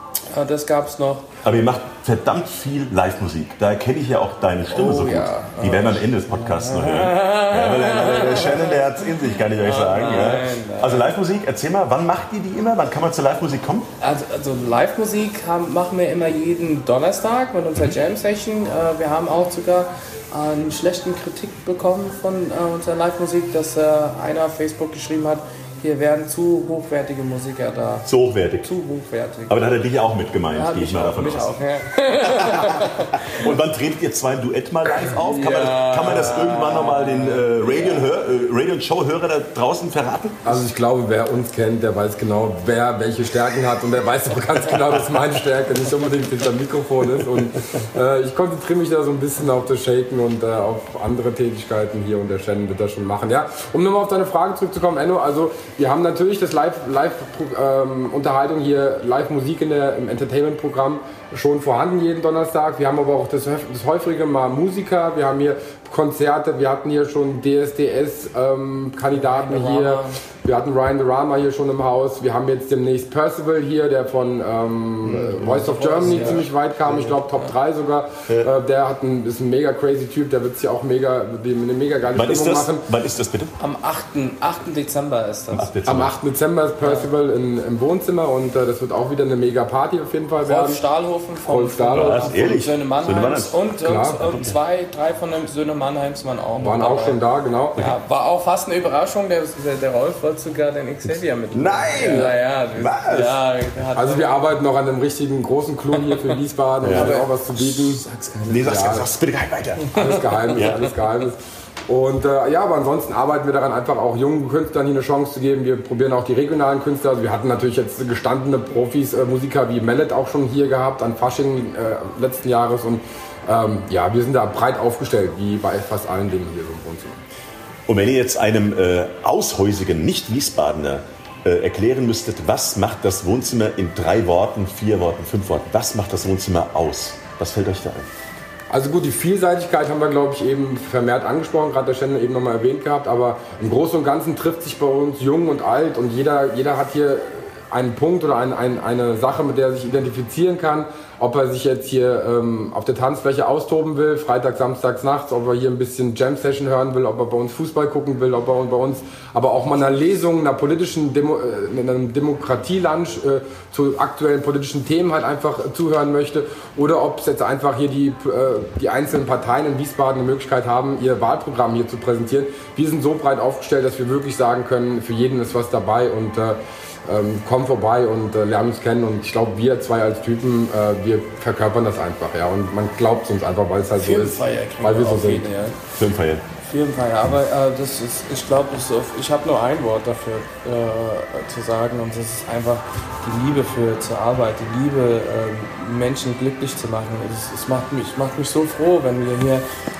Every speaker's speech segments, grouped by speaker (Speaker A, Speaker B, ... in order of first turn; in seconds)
Speaker A: 0.3-1.3, 4.7-8.8, 9.6-11.1, 14.0-29.6, 30.5-33.5, 35.1-38.1, 69.1-70.2, 75.5-77.5, 83.6-85.7, 86.8-87.1, 90.4-97.2, 97.8-104.3, 106.9-108.7, 109.9-110.2, 184.0-185.8, 186.6-199.6
Speaker B: 1.4-13.9, 28.0-28.7, 29.5-31.6, 32.2-40.6, 75.0-76.3, 82.1-83.5, 85.5-86.2, 91.9-93.6, 94.2-94.6, 101.1-103.4, 106.8-107.2, 108.5-110.9, 127.9-138.1, 185.9-186.4
Speaker C: 40.4-82.8, 85.8-90.8, 91.5-92.4, 93.8-94.2, 96.6-97.8, 104.0-108.0, 108.6-109.1, 109.9-127.2, 138.7-185.4